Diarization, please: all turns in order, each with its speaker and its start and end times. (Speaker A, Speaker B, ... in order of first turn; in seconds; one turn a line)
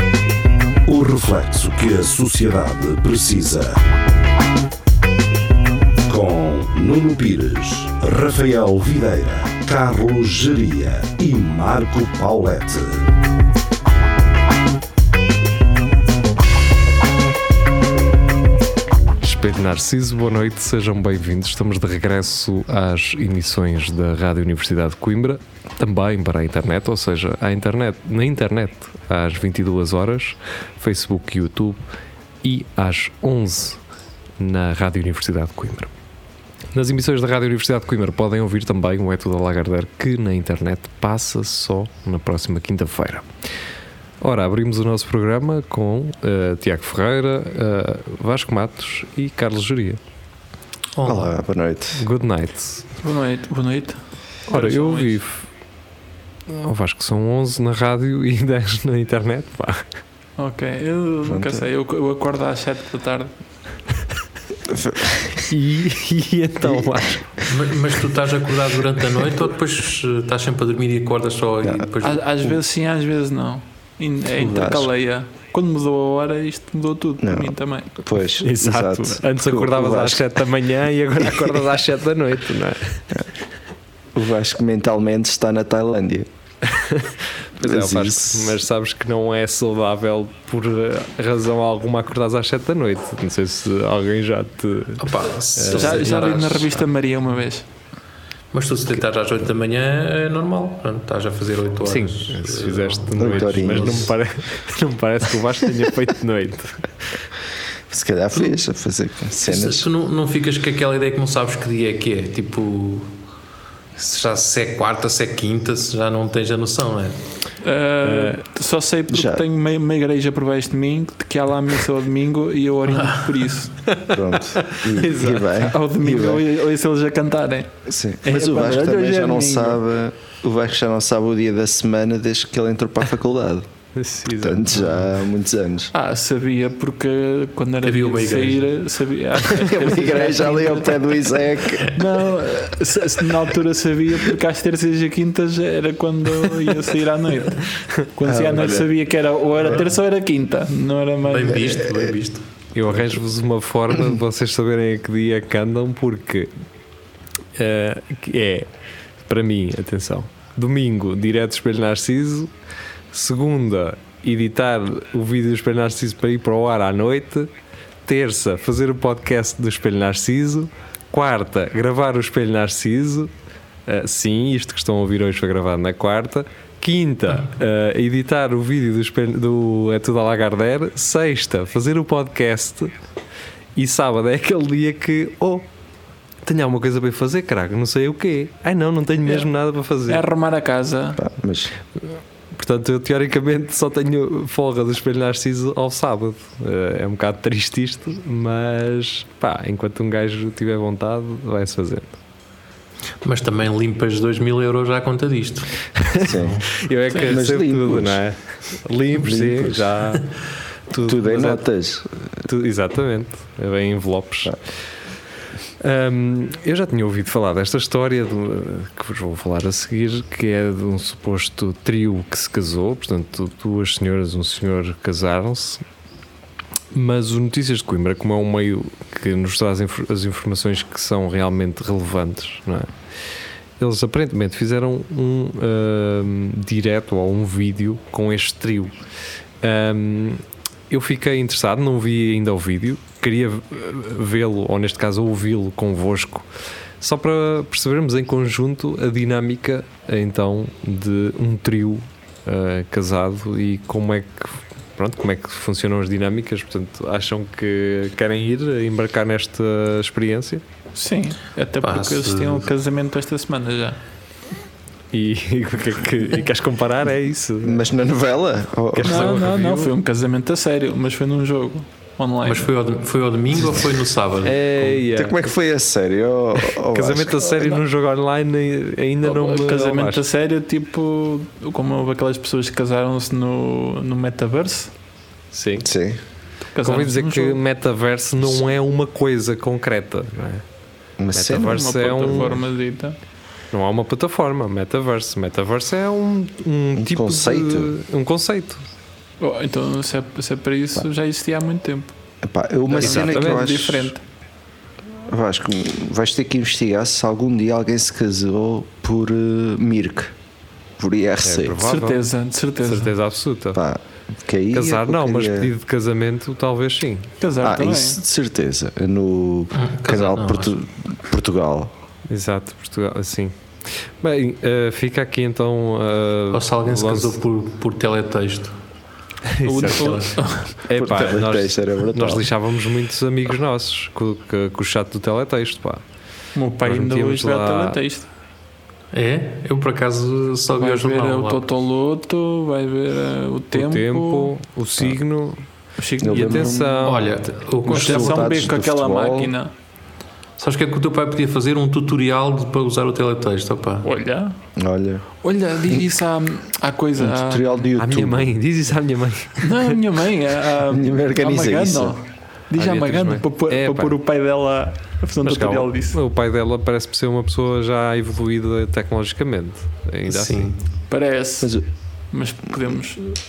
Speaker A: 0.9-3.8
Speaker A: 6.1-13.1
Speaker B: 19.2-31.8
Speaker B: 32.4-33.8
Speaker B: 34.4-35.9
Speaker B: 36.7-43.3
Speaker B: 44.2-50.0
Speaker C: 51.0-51.3
Speaker D: 51.0-52.0
Speaker B: 52.0-52.9
Speaker E: 53.0-55.2
Speaker B: 54.5-55.4
Speaker B: 56.5-59.9
Speaker E: 60.4-63.3
Speaker D: 61.2-61.7
Speaker D: 64.7-65.5
Speaker B: 65.5-67.3
Speaker D: 66.7-67.5
Speaker C: 67.5-72.2
Speaker D: 71.6-71.9
Speaker E: 72.0-78.0
Speaker D: 74.4-74.9
Speaker D: 77.2-80.2
Speaker B: 78.4-83.0
Speaker D: 84.2-86.3
Speaker B: 86.7-96.1
Speaker D: 87.6-88.6
Speaker C: 95.0-96.9
Speaker E: 95.7-97.7
Speaker C: 98.5-104.1
Speaker B: 101.8-107.1
Speaker D: 103.2-104.1
Speaker D: 107.9-109.9
Speaker C: 109.4-113.1
Speaker C: 114.0-117.2
Speaker E: 117.6-123.8
Speaker B: 118.0-118.3
Speaker D: 119.1-119.4
Speaker C: 122.9-123.5
Speaker B: 123.9-124.2
Speaker D: 124.1-126.4
Speaker B: 124.9-125.6
Speaker E: 125.5-129.8
Speaker D: 127.9-133.7
Speaker B: 133.9-135.1
Speaker D: 134.3-135.9
Speaker E: 135.9-151.9
Speaker C: 137.8-138.6
Speaker D: 139.5-141.9
Speaker D: 148.2-148.9
Speaker C: 151.3-153.2
Speaker B: 152.8-156.5
Speaker B: 157.6-158.7
Speaker B: 159.3-162.5
Speaker B: 163.1-167.5
Speaker B: 168.1-173.3
Speaker B: 173.9-182.9
Speaker B: 183.8-185.7
Speaker B: 186.4-190.2
Speaker E: 190.1-191.2
Speaker D: 191.2-191.7
Speaker B: 192.2-202.2
Speaker C: 203.2-205.7
Speaker D: 206.2-206.6
Speaker C: 206.3-206.6
Speaker B: 206.8-210.3
Speaker D: 207.2-208.2
Speaker D: 209.2-210.0
Speaker B: 210.9-211.7
Speaker D: 211.1-212.4
Speaker B: 212.5-214.6
Speaker B: 215.8-225.8
Speaker B: 226.9-232.9
Speaker B: 233.8-239.0
Speaker B: 239.6-246.5
Speaker B: 247.0-260.6
Speaker E: 260.9-264.0
Speaker C: 261.8-262.7
Speaker B: 265.1-267.9
Speaker D: 267.6-269.4
Speaker B: 268.9-269.9
Speaker E: 269.0-272.7
Speaker C: 272.4-275.0
Speaker B: 274.4-275.5
Speaker D: 275.1-277.4
Speaker B: 276.9-280.2
Speaker E: 277.6-277.8
Speaker E: 279.2-284.9
Speaker B: 285.5-285.9
Speaker D: 285.8-286.2
Speaker E: 286.8-287.6
Speaker B: 286.8-290.6
Speaker D: 291.2-292.6
Speaker B: 291.4-292.6
Speaker E: 291.7-293.2
Speaker B: 293.7-298.8
Speaker D: 297.0-297.9
Speaker E: 299.4-302.2
Speaker D: 302.4-304.1
Speaker E: 302.9-304.2
Speaker B: 303.0-303.6
Speaker D: 305.3-310.3
Speaker D: 311.0-311.8
Speaker B: 311.4-312.3
Speaker E: 311.8-313.1
Speaker B: 312.8-313.8
Speaker D: 313.8-315.7
Speaker B: 314.7-317.3
Speaker E: 317.4-318.2
Speaker D: 317.6-321.9
Speaker C: 319.7-320.8
Speaker B: 322.3-323.6
Speaker B: 324.2-327.4
Speaker C: 326.5-328.8
Speaker B: 329.5-330.3
Speaker E: 329.7-330.8
Speaker C: 329.8-330.5
Speaker B: 330.9-336.0
Speaker D: 330.9-332.5
Speaker E: 336.6-338.3
Speaker B: 336.8-338.0
Speaker C: 339.1-341.7
Speaker E: 340.8-344.5
Speaker B: 343.7-345.6
Speaker E: 346.0-347.2
Speaker D: 346.2-346.7
Speaker B: 346.3-347.6
Speaker C: 347.0-348.5
Speaker E: 347.8-349.7
Speaker D: 347.9-349.5
Speaker C: 350.6-354.1
Speaker E: 354.0-354.6
Speaker D: 354.8-355.3
Speaker E: 355.4-357.9
Speaker D: 357.2-358.5
Speaker B: 358.0-360.0
Speaker E: 359.6-366.2
Speaker D: 360.9-362.2
Speaker B: 362.8-364.2
Speaker B: 365.4-370.7
Speaker C: 370.3-370.8
Speaker E: 371.1-371.8
Speaker E: 372.3-373.2